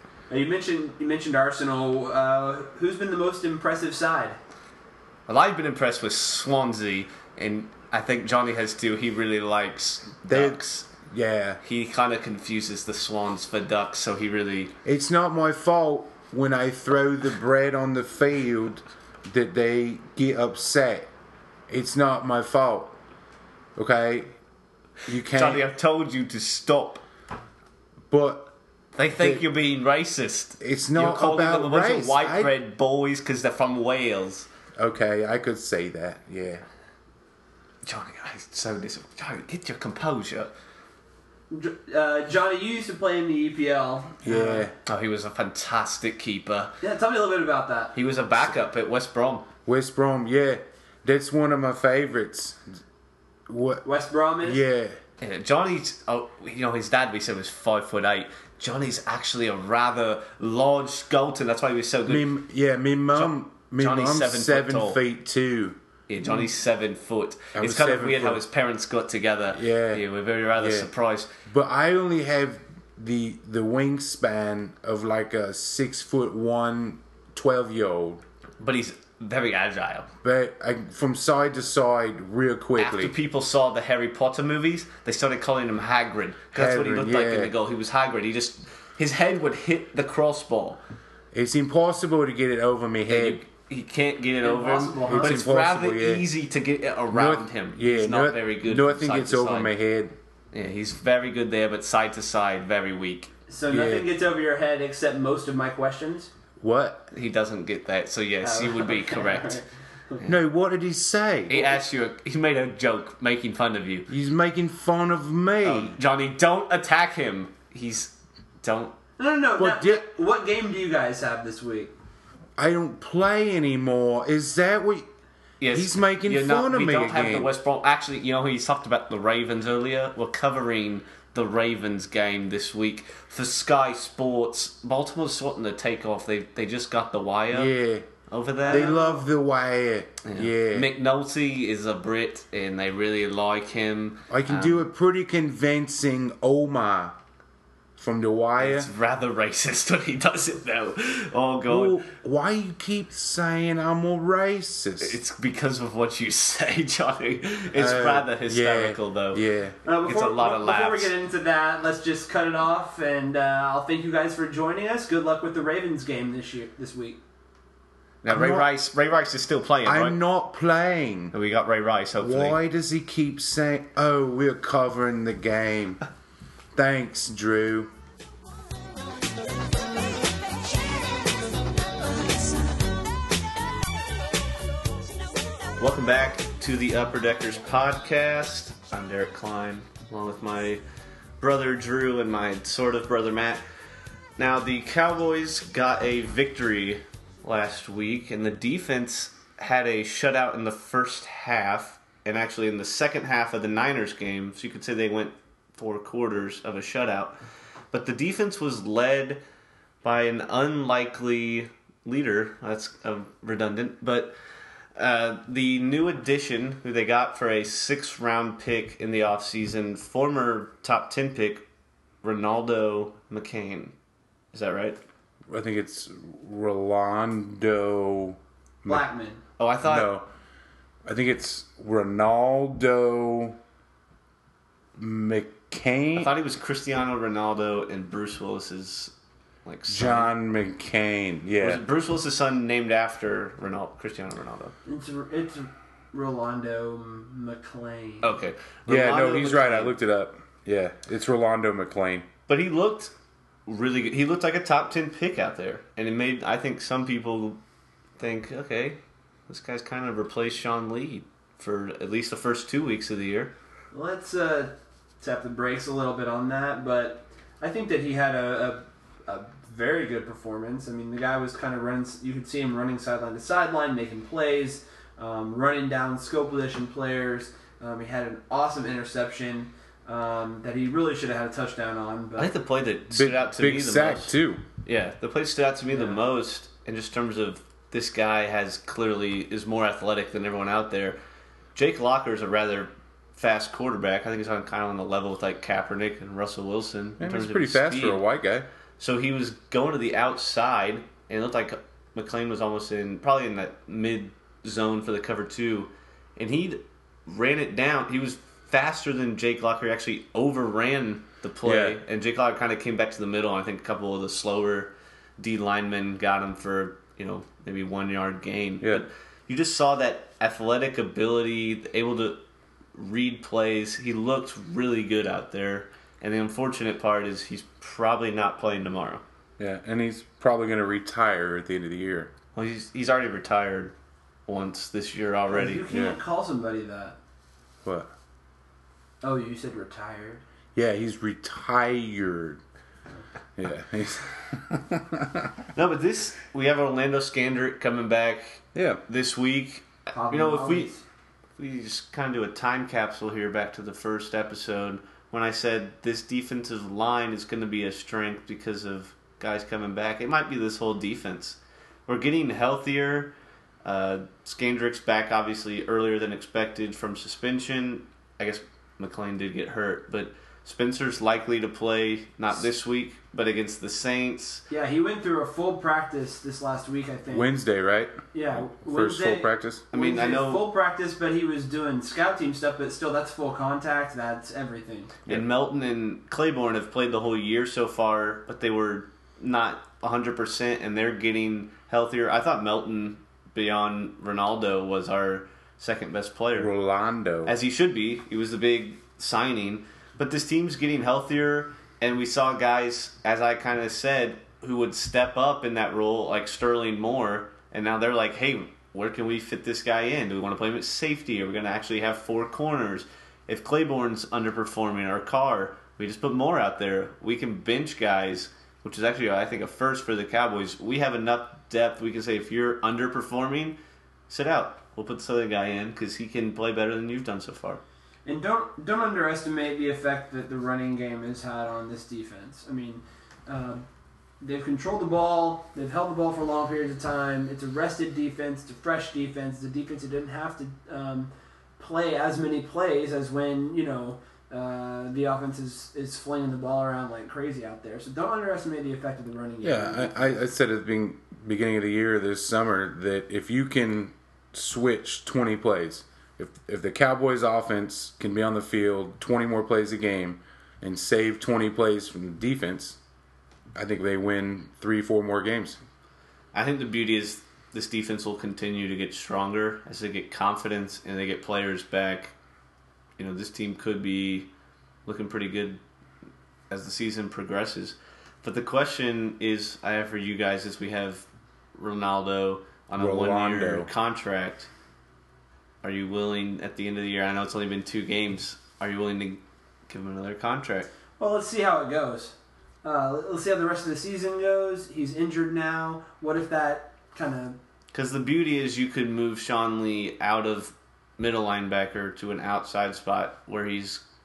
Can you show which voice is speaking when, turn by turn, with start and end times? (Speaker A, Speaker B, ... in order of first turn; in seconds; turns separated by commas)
Speaker A: 0.3-4.4, Speaker B: 5.3-10.9, Speaker C: 10.3-11.6, Speaker B: 11.6-14.7, Speaker C: 14.8-21.1, Speaker C: 21.7-23.0, Speaker C: 23.8-24.3, Speaker C: 25.1-25.6, Speaker B: 25.3-27.0, Speaker C: 28.1-28.5, Speaker B: 29.0-34.5, Speaker C: 29.2-29.5, Speaker C: 30.6-32.5, Speaker C: 34.8-36.6, Speaker B: 37.9-40.5, Speaker A: 41.5-44.7, Speaker C: 44.2-44.7, Speaker B: 44.9-46.7, Speaker A: 46.8-47.9, Speaker B: 47.9-49.5, Speaker C: 49.6-52.8, Speaker C: 53.5-53.9, Speaker A: 53.8-54.6, Speaker C: 54.4-55.0, Speaker B: 55.2-62.3, Speaker C: 62.1-65.8, Speaker B: 63.1-65.0, Speaker B: 66.1-71.3, Speaker C: 67.5-68.4, Speaker C: 69.5-70.9, Speaker C: 71.5-78.2, Speaker B: 78.6-80.1, Speaker C: 80.2-83.1, Speaker B: 82.8-90.8, Speaker C: 86.5-87.5, Speaker C: 91.3-93.4, Speaker B: 93.1-99.7, Speaker A: 94.4-95.4, Speaker C: 95.1-96.3, Speaker C: 97.1-100.2, Speaker B: 100.5-103.3, Speaker A: 103.5-106.3, Speaker C: 103.7-104.1, Speaker C: 106.6-107.1, Speaker B: 107.1-109.6, Speaker A: 108.4-109.7, Speaker C: 110.2-111.7, Speaker B: 111.5-114.1, Speaker C: 114.1-116.0, Speaker B: 115.6-118.9, Speaker A: 119.2-121.9, Speaker C: 119.6-120.0, Speaker C: 122.6-125.0, Speaker B: 125.6-137.7, Speaker C: 125.7-127.5, Speaker C: 137.5-138.0, Speaker B: 138.3-138.9, Speaker A: 138.6-139.2, Speaker C: 138.7-140.9, Speaker B: 140.2-144.9, Speaker C: 144.3-147.2, Speaker C: 148.0-148.9, Speaker B: 148.6-152.0, Speaker C: 151.7-155.2, Speaker B: 155.0-159.4, Speaker C: 157.7-159.8, Speaker A: 159.8-167.2, Speaker B: 160.0-161.1, Speaker B: 168.2-170.2, Speaker C: 168.3-168.7, Speaker C: 169.8-171.3, Speaker B: 171.3-172.6, Speaker C: 172.2-176.0, Speaker C: 176.7-177.9, Speaker B: 185.8-190.8, Speaker B: 191.4-193.6, Speaker B: 194.4-207.4, Speaker B: 207.9-209.4, Speaker B: 210.0-214.3, Speaker B: 214.9-221.6, Speaker B: 222.2-223.9, Speaker B: 224.5-225.0, Speaker C: 225.5-229.0, Speaker A: 228.9-229.4, Speaker B: 229.6-230.1, Speaker C: 229.8-230.3, Speaker C: 231.1-233.6, Speaker C: 235.0-236.3, Speaker B: 236.2-239.1, Speaker B: 239.6-240.3, Speaker C: 239.9-241.8, Speaker B: 241.6-244.7, Speaker A: 244.8-248.3, Speaker B: 248.2-249.9, Speaker C: 248.9-252.3, Speaker B: 252.5-253.1, Speaker B: 253.7-257.6, Speaker B: 258.2-263.5, Speaker A: 263.9-282.5, Speaker B: 282.4-284.3, Speaker C: 283.1-284.6, Speaker B: 284.8-291.2, Speaker A: 285.9-286.2, Speaker B: 291.7-298.2, Speaker C: 297.2-298.7, Speaker B: 299.0-322.4, Speaker C: 311.6-312.0, Speaker B: 322.9-329.2, Speaker C: 329.6-332.3, Speaker B: 332.5-333.9, Speaker B: 334.5-335.9, Speaker A: 335.5-337.2, Speaker C: 335.9-336.2, Speaker C: 337.8-338.1, Speaker A: 339.2-340.4, Speaker C: 340.8-342.6, Speaker C: 343.6-345.6, Speaker B: 345.7-350.9, Speaker C: 348.7-349.0, Speaker A: 350.1-351.0, Speaker B: 351.6-363.3, Speaker B: 363.8-374.6, Speaker A: 374.7-377.5, Speaker C: 377.3-379.8, Speaker A: 378.3-385.1, Speaker B: 379.9-380.6, Speaker B: 385.3-396.7, Speaker C: 396.5-397.6, Speaker B: 397.4-423.8, Speaker B: 424.3-427.8, Speaker A: 428.2-433.8, Speaker A: 434.4-450.4, Speaker C: 449.6-463.0, Speaker C: 463.7-465.8, Speaker B: 466.5-472.3, Speaker B: 473.2-474.5, Speaker B: 475.1-475.8, Speaker B: 476.7-484.7, Speaker C: 482.9-483.9, Speaker B: 485.8-490.9, Speaker A: 491.2-497.6, Speaker B: 497.9-504.0